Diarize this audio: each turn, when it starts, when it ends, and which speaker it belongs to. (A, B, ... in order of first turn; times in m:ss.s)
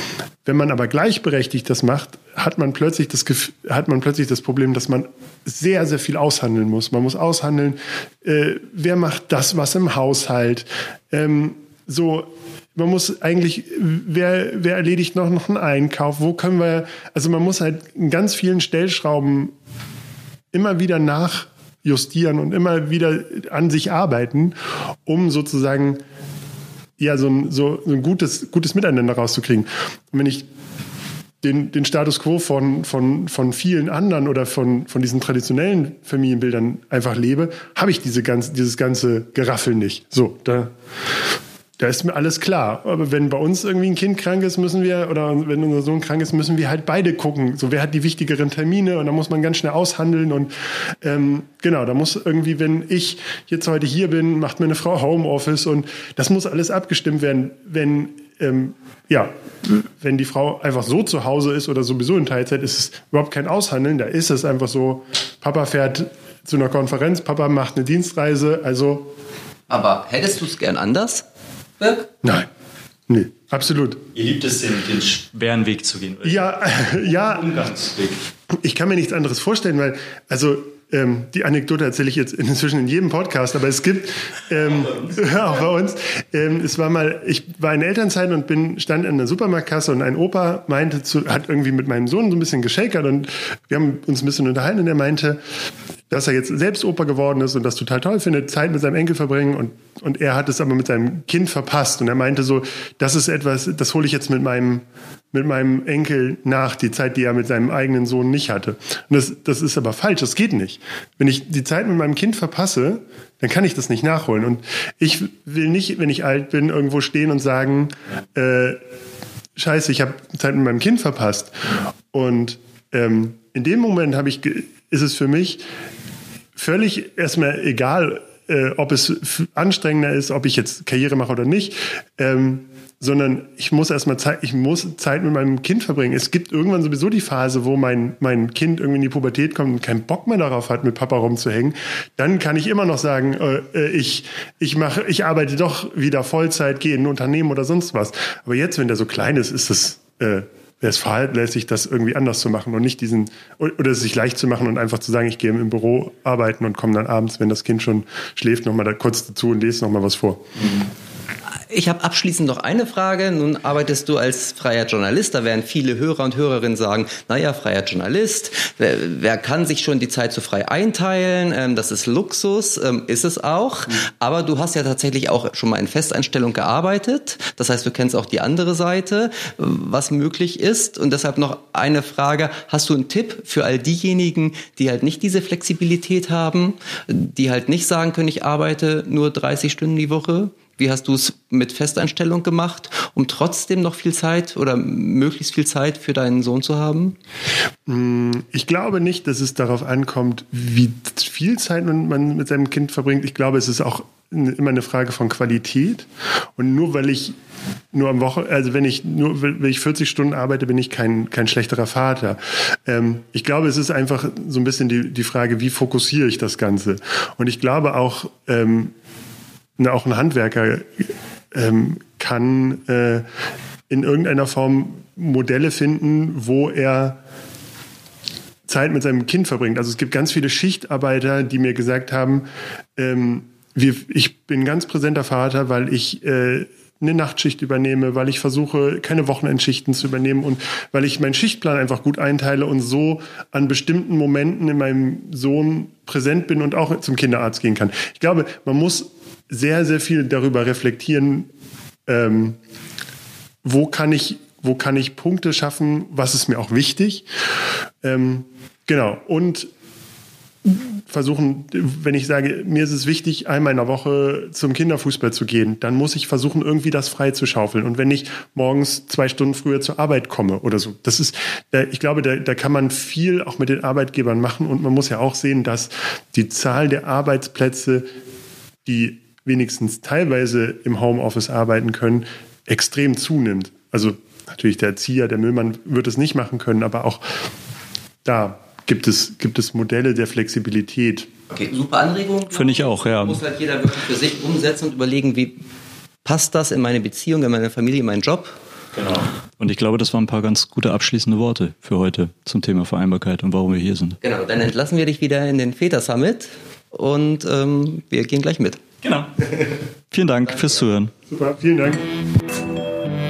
0:00.4-0:19.5 A
0:20.5-0:24.5 A
0:25.0-0:26.0 A
0:27.0-0:30.4 A
0:31.4-0:40.7 A
0:41.8-0:50.5 A
0:51.0-1:09.1 A
1:09.7-1:11.2 B
1:11.8-1:12.1 B
1:13.1-1:14.0 A
1:14.1-1:18.2 C
1:16.2-1:17.5 A
1:18.5-1:35.4 A
1:36.1-1:58.8 A
1:59.6-2:01.5 A
2:02.1-2:05.6 A
2:06.6-2:40.4 A
2:41.7-3:17.2 B
3:17.9-3:27.4 A
3:27.9-3:38.9 A
3:39.8-3:40.9 A
3:41.5-3:43.2 A
3:43.9-3:47.2 A
3:48.7-3:52.4 A
3:53.0-4:11.5 A
4:12.1-4:12.6 A
4:13.6-4:17.3 A
4:18.0-4:19.7 A
4:20.6-4:38.1 A
4:38.8-4:47.2 A
4:48.2-4:51.3 A
4:51.5-4:55.6 B
4:52.5-4:53.4 C
4:56.2-4:58.6 B
4:58.9-5:04.2 C
5:04.2-5:08.8 B
5:09.0-5:09.5 C
5:10.1-5:11.1 C
5:11.3-5:12.0 A